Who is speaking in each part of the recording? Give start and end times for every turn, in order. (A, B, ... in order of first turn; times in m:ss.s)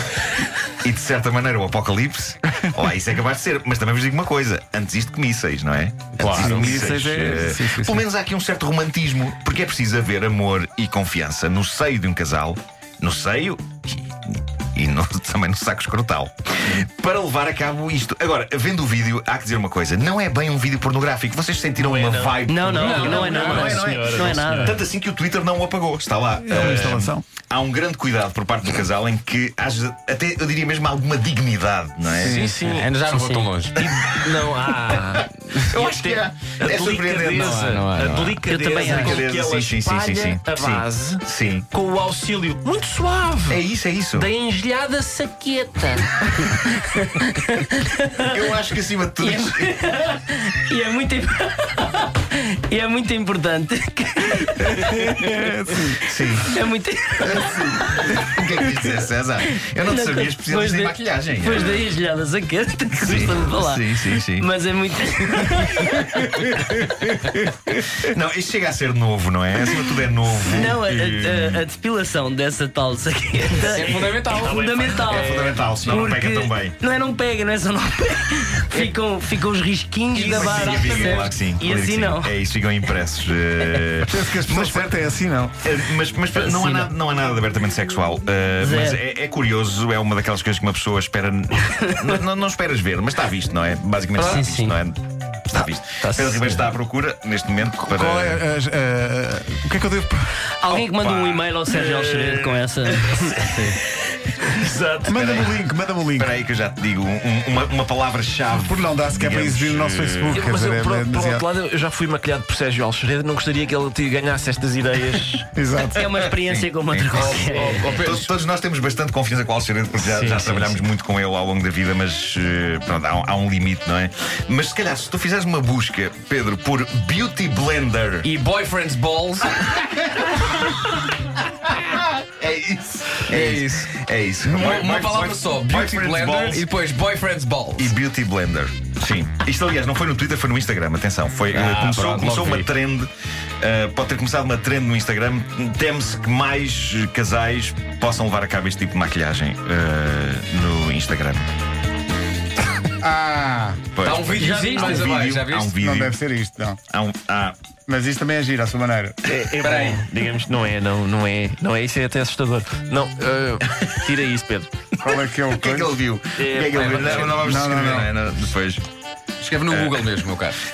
0:00.8-0:32.5 A
0:06.2-0:06.6 B
0:06.3-0:08.0 C
0:21.8-0:24.8 D
0:22.5-0:24.8 E
0:22.8-0:24.0 B
0:26.4-0:27.2 C
0:32.0-0:34.0 B
0:32.2-0:33.2 D
0:33.1-0:33.5 E
0:33.7-0:43.6 D
0:35.7-0:37.5 A
0:37.2-0:38.4 B
0:38.4-0:39.2 E
0:38.6-0:41.7 A
0:43.5-0:44.3 A
0:44.1-0:46.6 D
0:46.5-0:48.3 E
0:48.2-0:49.7 A
0:49.2-0:55.4 E
0:54.8-0:56.0 C
0:56.0-0:56.5 A
0:56.5-0:58.8 E
0:57.2-1:01.8 A
0:59.4-1:06.8 E
1:03.0-1:04.5 A
1:08.0-1:11.6 A
1:10.3-1:22.3 E
1:13.6-1:14.6 B
1:13.8-1:15.2 D
1:15.1-1:16.8 A
1:20.1-1:25.0 A
1:24.0-1:25.5 C
1:25.6-1:38.4 A
1:26.3-1:26.9 E
1:28.6-1:29.0 E
1:34.2-1:34.8 E
1:35.5-1:36.7 D
1:37.6-1:40.4 C
1:40.6-1:43.5 E
1:40.7-1:41.5 A
1:41.7-1:43.8 D
1:44.4-1:45.3 D
1:45.0-1:46.3 C
1:45.1-1:45.5 A
1:46.2-1:50.4 A
1:48.5-1:51.4 C
1:50.2-1:55.5 D
1:55.5-1:56.1 C
1:56.0-1:57.9 E
1:56.2-2:08.3 A
1:57.1-1:58.3 B
2:00.0-2:00.8 D
2:08.2-2:09.8 B
2:09.9-2:10.5 A
2:11.8-2:16.7 A
2:13.3-2:13.9 B
2:14.4-2:17.9 B
2:17.8-2:23.1 A
2:21.5-2:22.7 B
2:23.6-2:31.5 A
2:33.0-2:33.8 C
2:33.9-2:36.2 A
2:34.0-2:35.8 B
2:34.4-2:35.0 E
2:35.8-2:36.8 C
2:36.9-2:37.6 A
2:37.9-2:39.2 C
2:39.2-2:44.7 D
2:39.6-2:40.1 B
2:45.0-2:45.9 C
2:45.0-2:48.8 A
2:46.4-2:47.5 D
2:47.3-2:48.1 C
2:49.4-2:50.6 B
2:49.7-2:50.0 A